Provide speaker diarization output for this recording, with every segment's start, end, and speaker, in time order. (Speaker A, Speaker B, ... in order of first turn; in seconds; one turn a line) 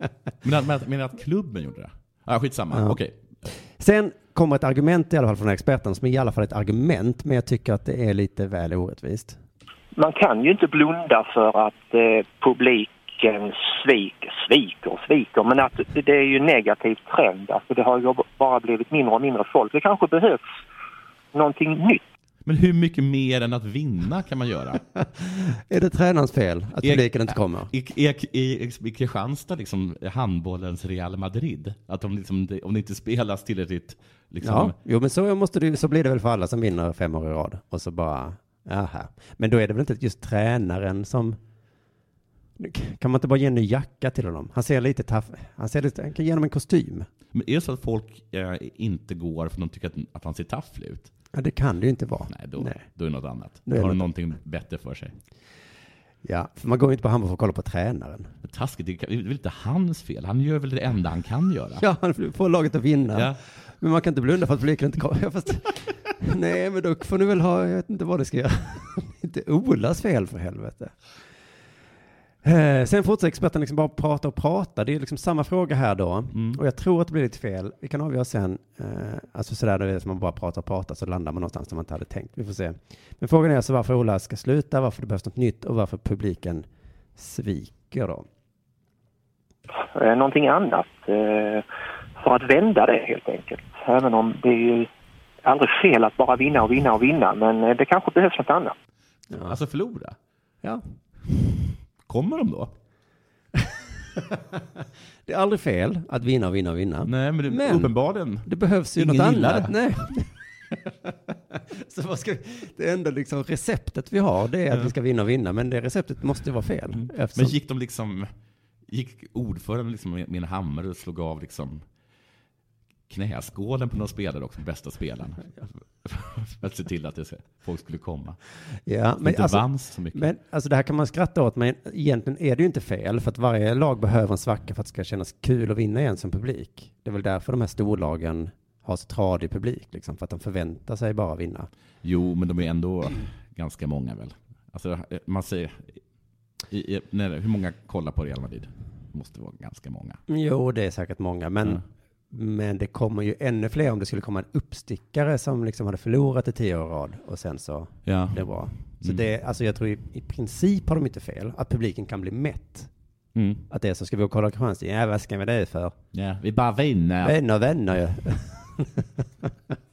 Speaker A: 0.4-3.2
Speaker B: 2.7-3.0
Speaker B: 3.5-9.4
Speaker C: 9.9-20.4
Speaker C: 21.3-22.0
Speaker A: 22.4-24.8
Speaker B: 25.0-27.7
Speaker A: 26.8-34.7
Speaker B: 34.4-41.4
Speaker B: 42.6-47.1
Speaker A: 47.3-51.1
Speaker B: 51.3-52.8
Speaker A: 52.3-55.1
Speaker B: 53.6-54.0
Speaker B: 56.2-58.3
Speaker A: 58.4-61.8
Speaker B: 61.8-70.9
Speaker A: 63.1-63.4
Speaker B: 72.4-88.3
Speaker A: 76.3-76.6
Speaker C: 89.9-91.6
Speaker C: 92.2-94.9
Speaker C: 95.4-98.7
Speaker A: 99.3-100.2
Speaker A: 102.0-102.7
Speaker B: 105.3-107.9
Speaker A: 107.0-109.7
Speaker B: 108.4-110.3
Speaker B: 111.1-117.6
Speaker A: 116.9-118.3
Speaker A: 118.9-121.8
Speaker A: 123.1-128.4
Speaker B: 128.9-141.7
Speaker A: 129.2-130.3
Speaker A: 142.0-146.0
Speaker A: 146.7-150.2
Speaker B: 150.3-162.9
Speaker A: 158.0-158.5
Speaker A: 163.3-163.7
Speaker B: 163.7-165.9
Speaker A: 166.1-167.4
Speaker B: 167.2-169.4